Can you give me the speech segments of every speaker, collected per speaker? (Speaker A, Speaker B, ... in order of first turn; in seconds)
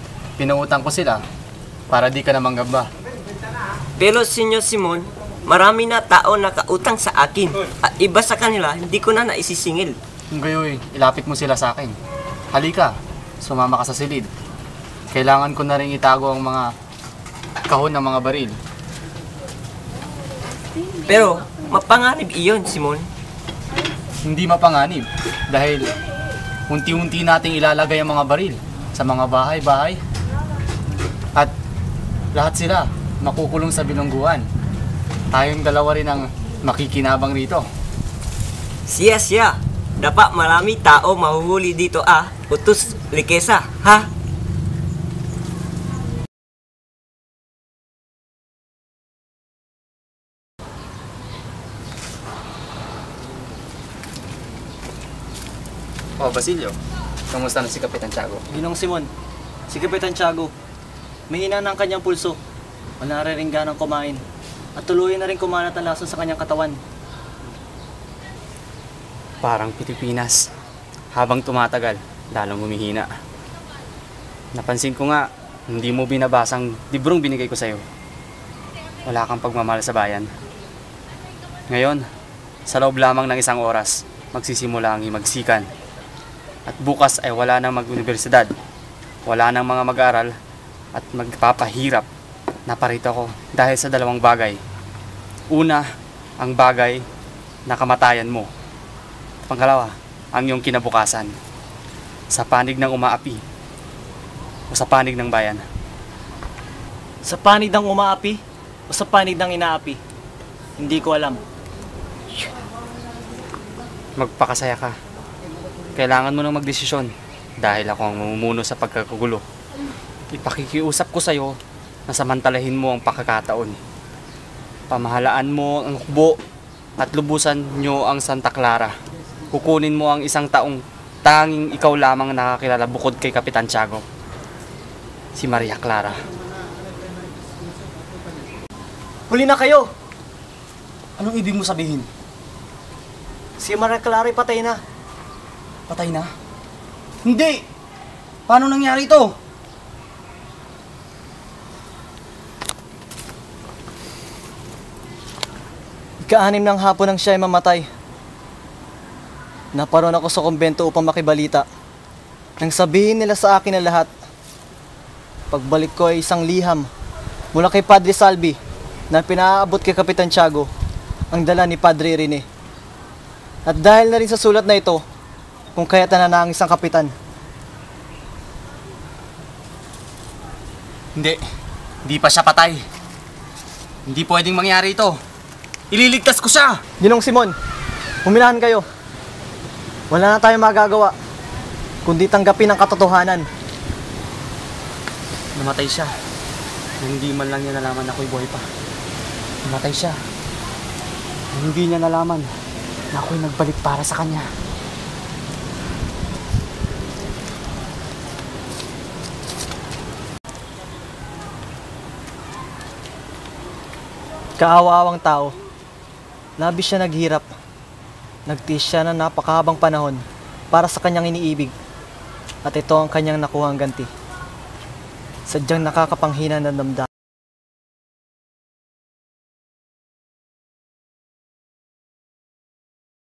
Speaker A: 0.4-1.2, 1.9-2.9, 10.3-11.9, 12.5-14.3, 15.1-16.7, 17.6-18.5, 24.2-25.9, 26.7-30.0, 32.3-34.4, 35.3-37.6, 56.2-56.8, 57.3-58.4, 69.4-70.5, 71.1-73.1, 74.5-77.8, 79.0-80.3, 81.7-82.0, 82.7-85.7, 86.7-88.5, 89.2-90.3, 90.9-92.0, 92.7-94.6, 95.5-95.8, 96.4-97.0, 97.7-98.5, 99.5-101.3, 102.3-103.4, 104.7-105.6, 114.2-114.9, 115.9-119.4, 120.3-121.6, 122.1-123.8, 124.9-126.4, 127.0-128.9, 129.5-134.0, 135.3-136.2, 141.2-142.1, 145.9-146.3, 147.2-147.6, 148.5-149.3, 182.0-182.8, 184.1-185.2, 185.9-186.8, 195.6-196.1, 197.0-198.7, 199.7-200.2, 201.5-202.5, 203.1-204.4
Speaker B: 4.0-10.0, 21.1-23.1, 38.9-44.1
Speaker C: 58.5-59.1, 59.7-60.5, 61.3-62.4, 63.0-64.2, 64.8-66.8, 107.2-108.4, 108.9-110.0, 110.8-111.4, 139.3-139.9, 143.6-144.8, 156.3-157.9, 159.7-161.7, 162.6-164.1, 165.5-166.9, 167.5-168.6, 169.1-170.7, 171.3-172.4, 173.7-175.0, 175.8-177.1, 187.0-187.5, 188.2-188.8, 190.1-191.1, 192.1-193.4, 214.6-215.5, 216.6-217.4, 218.5-221.7, 222.6-224.1, 225.5-227.1